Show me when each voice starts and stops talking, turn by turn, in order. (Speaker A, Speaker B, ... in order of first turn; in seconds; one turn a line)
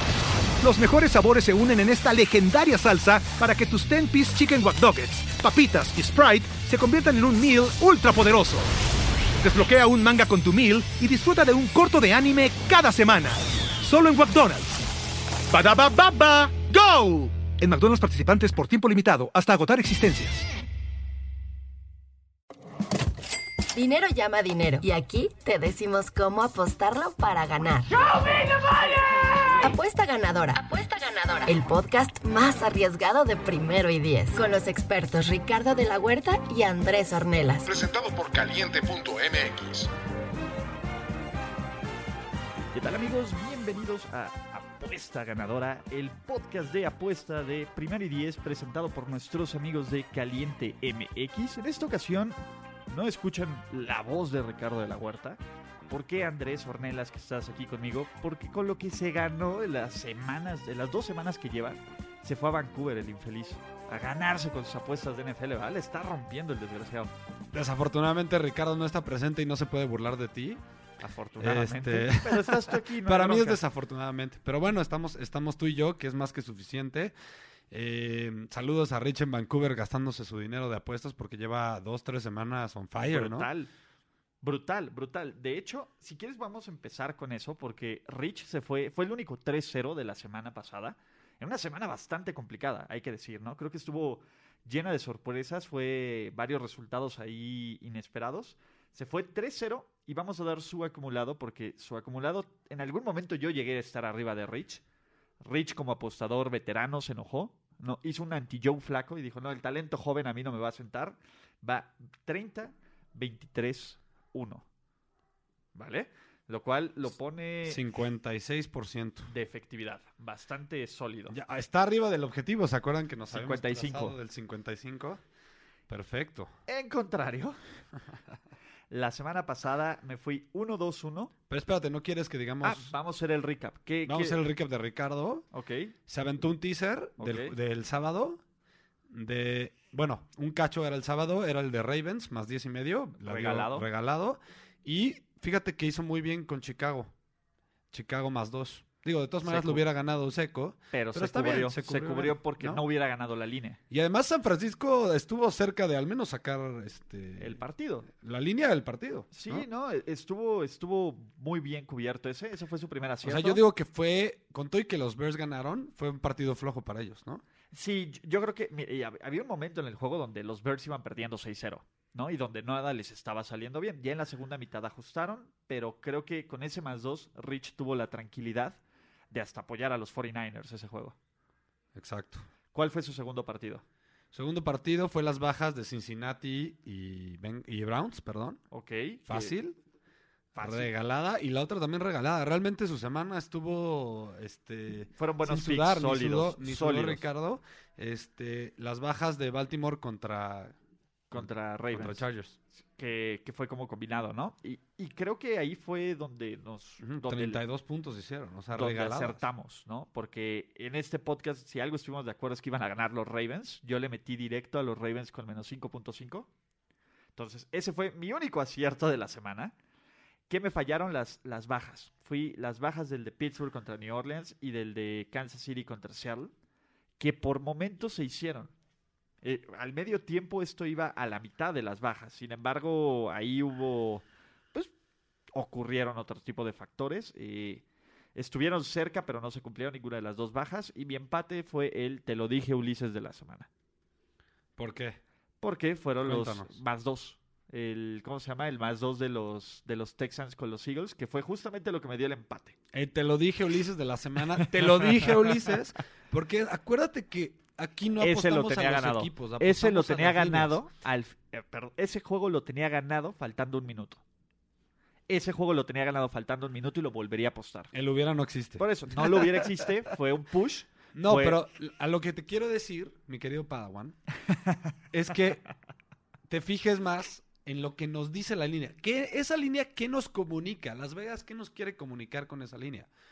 Speaker A: 0.6-8.7
Speaker A: 9.4-14.8
Speaker A: 15.5-20.5
Speaker B: 23.7-28.1
Speaker B: 29.6-37.7
Speaker C: 37.7-39.9
Speaker D: 42.7-52.4
Speaker D: 52.9-67.1
Speaker E: 67.5-70.6
Speaker D: 71.0-73.6
Speaker E: 71.4-77.1
Speaker E: 77.7-83.5
Speaker D: 83.0-83.7
Speaker D: 84.4-104.8
Speaker D: 105.4-114.7
Speaker D: 115.8-117.8
Speaker E: 117.7-119.3
Speaker D: 119.3-121.4
Speaker E: 121.3-125.2
Speaker D: 123.3-124.2
Speaker E: 125.9-126.5
Speaker D: 126.7-127.6
Speaker D: 128.9-131.3
Speaker E: 131.5-132.9
Speaker D: 132.6-134.4
Speaker E: 134.1-135.5
Speaker D: 135.5-135.9
Speaker E: 136.1-138.4
Speaker D: 137.2-137.5
Speaker E: 139.1-147.1
Speaker D: 143.2-143.9
Speaker E: 147.9-152.8
Speaker D: 149.4-149.8
Speaker D: 150.9-153.8
Speaker E: 153.9-159.7
Speaker D: 157.4-158.1
Speaker D: 159.3-163.6
Speaker E: 163.2-167.4
Speaker D: 167.7-178.8
Speaker D: 179.3-181.2
Speaker E: 181.9-182.5
Speaker D: 182.7-183.8
Speaker E: 184.3-188.6
Speaker D: 188.7-189.6
Speaker E: 189.3-189.8
Speaker D: 190.6-190.9
Speaker E: 190.6-200.8
Speaker D: 195.2-197.2
Speaker D: 201.3-202.2
Speaker E: 201.3-202.6
Speaker D: 203.0-207.6
Speaker E: 207.0-209.4
Speaker D: 208.8-216.5
Speaker D: 217.4-219.7
Speaker D: 220.5-226.5
Speaker D: 227.2-228.7
Speaker D: 229.4-234.9
Speaker D: 235.5-237.8
Speaker D: 238.3-243.7
Speaker E: 244.8-245.2
Speaker D: 245.6-252.8
Speaker E: 246.2-246.8
Speaker E: 252.9-260.8
Speaker D: 258.2-264.2
Speaker D: 265.3-267.9
Speaker E: 267.9-269.6
Speaker D: 268.8-271.6
Speaker E: 271.1-274.2
Speaker E: 275.1-275.6
Speaker E: 276.5-283.1